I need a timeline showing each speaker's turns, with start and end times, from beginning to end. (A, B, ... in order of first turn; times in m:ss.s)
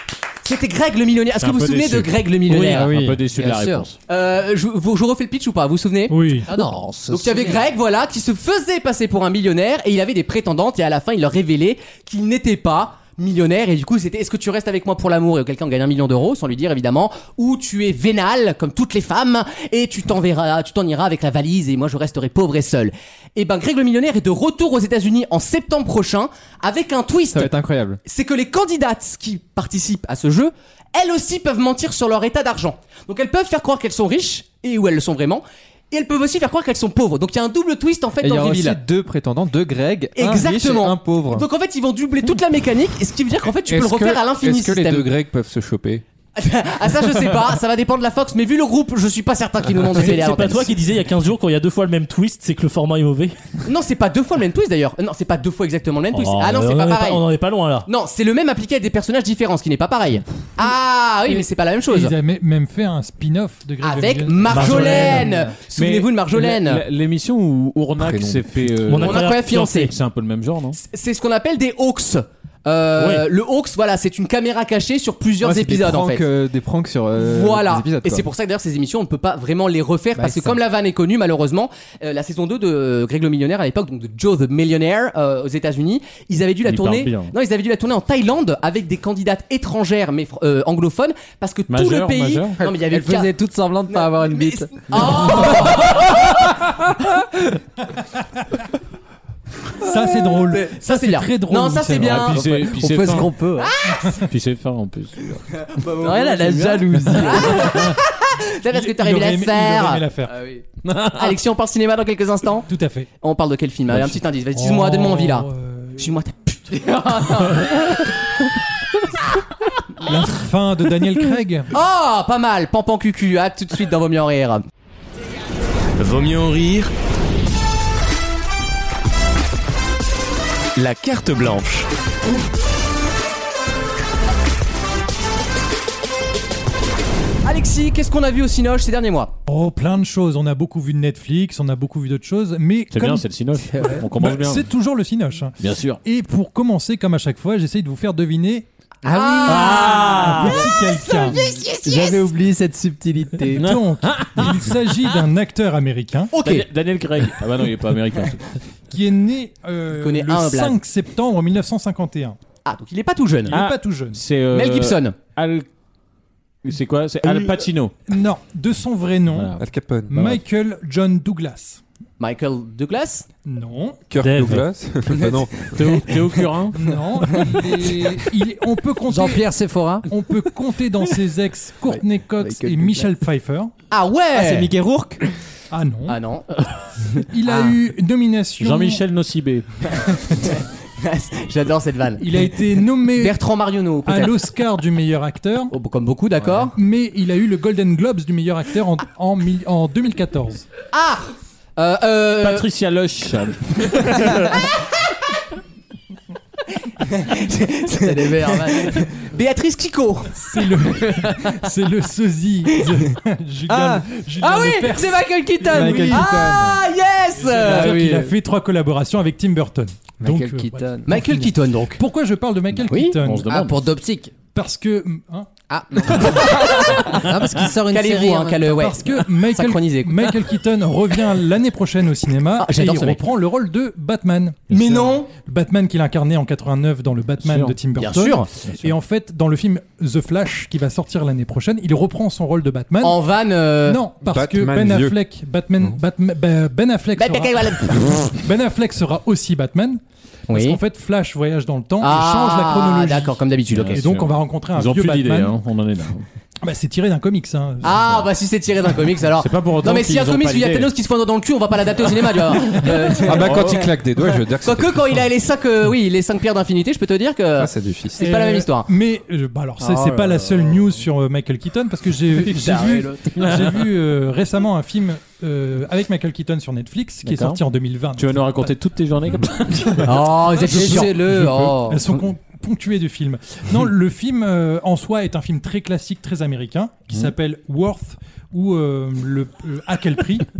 0:00.4-0:02.9 A
0:01.4-0:04.0 B
0:02.7-0:03.2 C
0:03.4-0:03.8 D
0:04.1-0:06.4 A
0:06.1-0:06.5 E
0:06.4-0:07.6 D
0:07.1-0:27.5 A
0:27.3-0:28.0 C
0:28.0-0:38.8 A
0:38.2-0:41.5 C
0:40.2-0:45.1 A
0:43.6-0:46.0 F
0:46.4-0:50.8 A
0:49.9-0:53.5 G
0:53.6-0:57.2 A
0:56.1-0:57.9 G
0:57.8-1:02.1 A
1:01.9-1:05.4 E
1:03.8-1:06.8 A
1:04.5-1:10.8 B
1:04.8-1:05.2 G
1:08.0-1:08.6 F
1:08.9-1:09.9 G
1:09.0-1:09.9 A
1:10.7-1:16.2 A
1:13.0-1:13.3 G
1:15.4-1:18.3 C
1:17.2-1:33.3 A
1:20.2-1:20.5 D
1:26.6-1:27.3 B
1:31.7-1:32.6 B
1:32.6-1:35.5 D
1:33.9-1:36.5 A
1:39.8-1:42.3 E
1:40.5-1:42.4 A
1:42.0-1:43.3 B
1:42.3-1:43.7 D
1:43.6-1:44.2 A
1:44.0-1:44.2 E
1:44.1-1:45.4 B
1:45.6-1:50.0 A
1:45.8-1:47.8 D
1:46.0-1:47.1 C
1:47.6-1:47.9 B
1:48.7-1:50.4 E
1:50.3-1:50.6 D
1:50.8-1:51.4 B
1:51.1-1:52.7 A
1:52.7-1:53.1 E
1:53.2-1:57.9 A
1:54.5-1:56.1 E
1:57.0-1:57.4 D
2:00.0-2:01.7 E
2:01.7-2:04.6 A
2:06.0-2:06.9 H
2:10.8-2:11.9 H
2:17.4-2:19.3 A
2:19.5-2:28.6 E
2:22.9-2:24.6 B
2:25.6-2:26.0 B
2:29.0-2:30.6 D
2:29.1-2:30.4 A
2:29.5-2:30.6 B
2:29.6-2:31.4 E
2:31.1-2:32.3 A
2:31.8-2:33.6 C
2:33.5-2:36.3 E
2:33.6-2:35.1 B
2:36.3-2:36.7 A
2:36.4-2:38.6 B
2:38.9-2:42.4 E
2:39.9-2:40.8 A
2:42.6-2:43.6 A
2:43.5-2:44.2 E
2:43.5-2:45.6 B
2:44.5-2:45.2 A
2:46.6-2:47.9 B
2:48.1-2:49.6 E
2:49.3-2:49.6 B
2:49.6-2:50.3 F
2:50.1-2:51.8 E
2:52.2-2:53.3 A
2:53.4-2:54.0 E
2:54.1-2:56.2 F
2:54.2-2:54.7 G
2:55.1-2:56.0 A
2:55.7-2:56.8 B
2:56.7-2:59.5 E
2:57.3-2:57.6 A
2:59.1-3:00.1 D
3:00.1-3:03.7 E
3:02.4-3:02.9 C
3:03.9-3:04.7 A
3:04.3-3:05.2 C
3:05.7-3:06.2 E
3:06.1-3:06.5 A
3:07.3-3:09.0 E
3:08.6-3:09.6 B
3:10.4-3:12.5 A
3:12.2-3:13.4 E
3:13.1-3:14.4 A
3:14.0-3:15.7 E
3:15.7-3:16.8 A
3:16.8-3:20.6 E
3:20.9-3:22.6 A
3:22.4-3:24.7 B
3:24.0-3:24.7 A
3:27.0-3:31.5 A
3:28.0-3:29.0 D
3:30.4-3:36.3 E
3:33.7-3:34.0 C
3:34.4-3:34.9 A
3:34.4-3:36.3 D
3:35.7-3:36.8 C
3:36.1-3:38.0 A
3:37.4-3:43.5 E
3:37.6-3:38.3 D
3:40.2-3:41.1 D
3:41.1-3:42.0 A
3:42.7-3:43.2 A
3:43.2-3:43.8 B
3:43.5-3:44.3 D
3:44.5-3:45.5 E
3:45.7-3:48.8 D
3:46.4-3:47.2 A
3:47.9-3:50.3 A
3:48.7-4:03.2 E
3:52.6-3:53.2 A
3:54.7-3:55.3 A
3:57.4-3:57.7 B
3:58.0-3:58.5 A
3:58.6-3:58.9 B
4:03.0-4:04.0 A
4:03.8-4:13.4 E
4:04.2-4:05.2 F
4:07.2-4:08.4 A
4:10.5-4:10.8 A
4:12.0-4:14.0 A
4:13.7-4:16.2 B
4:13.9-4:15.5 E
4:16.6-4:18.2 E
4:17.8-4:28.9 A
4:19.4-4:20.9 B
4:22.8-4:23.8 B
4:23.2-4:25.2 F
4:27.6-4:28.2 F
4:28.2-4:38.7 E
4:29.8-4:30.3 D
4:32.6-4:33.1 D
4:33.3-4:33.8 B
4:37.2-4:37.6 B
4:38.2-4:40.1 B
4:40.0-4:41.2 A
4:40.6-4:42.0 D
4:40.7-4:50.5 E